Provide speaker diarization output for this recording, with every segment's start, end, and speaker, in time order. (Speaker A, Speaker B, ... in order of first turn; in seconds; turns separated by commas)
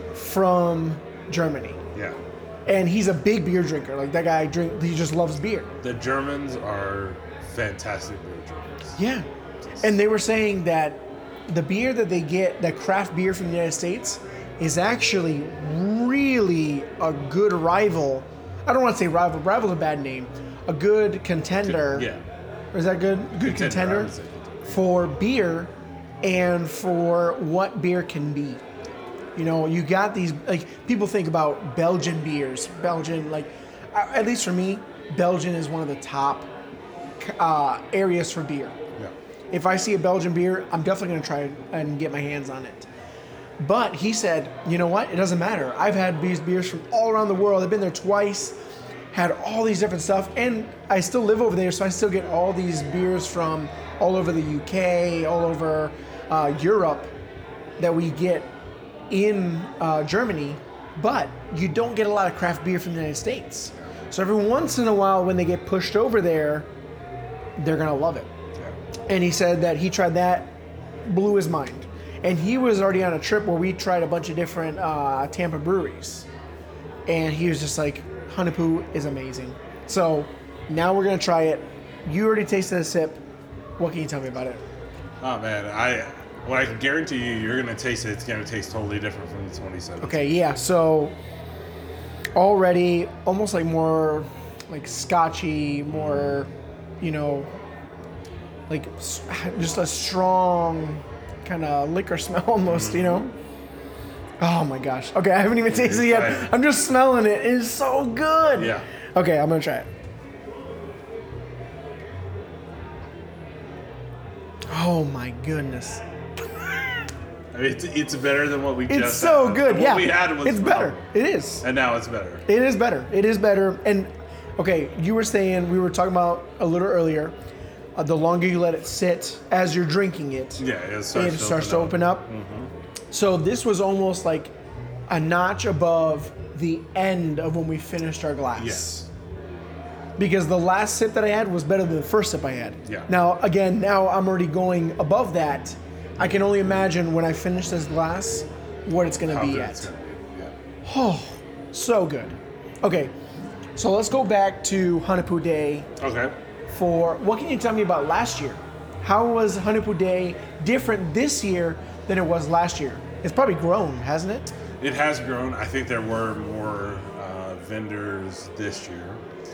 Speaker A: 0.1-1.8, Speaker B: 1.9-2.2, Speaker A: 2.7-5.7, Speaker B: 5.8-9.0, Speaker A: 9.0-9.2, Speaker A: 9.8-22.1, Speaker B: 21.7-22.2, Speaker A: 22.7-24.1, Speaker B: 23.4-24.8, Speaker A: 24.7-28.6, Speaker A: 29.4-36.5, Speaker A: 37.2-38.8, Speaker A: 39.5-42.9, Speaker A: 43.6-48.6, Speaker A: 49.1-57.1, Speaker A: 57.8-58.5, Speaker A: 59.1-66.7, Speaker A: 67.6-68.3, Speaker A: 69.1-76.3, Speaker A: 77.1-83.2, Speaker A: 83.8-84.6, Speaker B: 85.2-90.3, Speaker A: 90.0-91.2, Speaker A: 92.3-96.5, Speaker B: 95.9-96.4, Speaker A: 97.0-97.5, Speaker A: 98.7-103.3, Speaker B: 102.7-103.3, Speaker A: 104.4-109.9, Speaker B: 105.7-106.5, Speaker B: 108.5-108.8, Speaker A: 114.7-116.0, Speaker B: 117.5-121.0, Speaker A: 118.9-121.6, Speaker B: 121.6-122.4, Speaker A: 122.5-127.3, Speaker A: 128.0-132.3, Speaker B: 130.6-132.7, Speaker A: 133.1-134.5, Speaker A: 135.1-139.0, Speaker B: 138.6-139.1, Speaker A: 140.2-149.9, Speaker B: 142.8-143.1, Speaker B: 149.3-150.5, Speaker A: 150.8-153.1, Speaker A: 153.8-155.9, Speaker B: 156.0-156.3, Speaker A: 156.7-164.5, Speaker B: 164.8-169.2